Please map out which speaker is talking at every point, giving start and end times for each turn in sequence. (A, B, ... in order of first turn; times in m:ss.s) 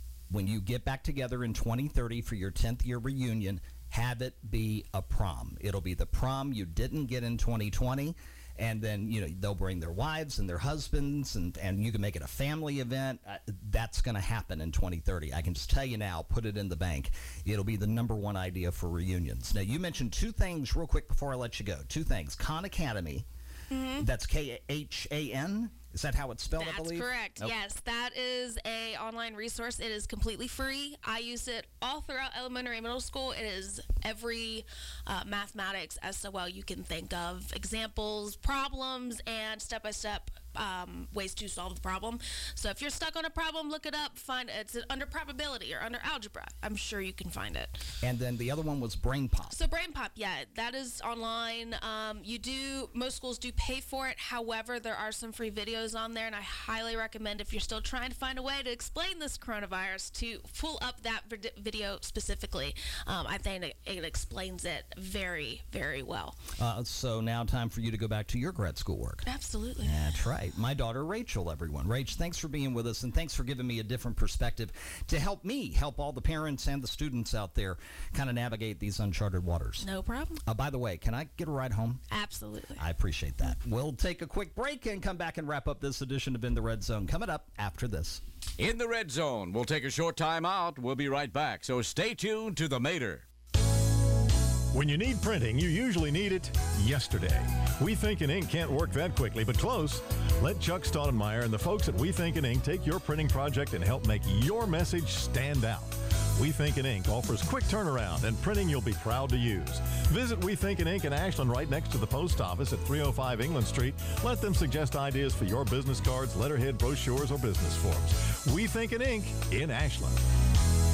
0:00.3-0:23.3 A
0:23.7-0:24.1 B
0:24.0-0:27.6 A
0:26.5-0:47.8 B
0:48.0-0:49.6 A
0:49.5-1:06.4 B
1:06.6-1:09.2 A
1:09.2-1:10.2 B
1:09.8-1:19.9 A
1:19.8-1:20.4 B
1:20.4-1:22.0 A
1:22.1-1:22.8 B
1:22.8-1:28.2 A
1:28.6-1:33.2 C
1:34.7-2:00.2 D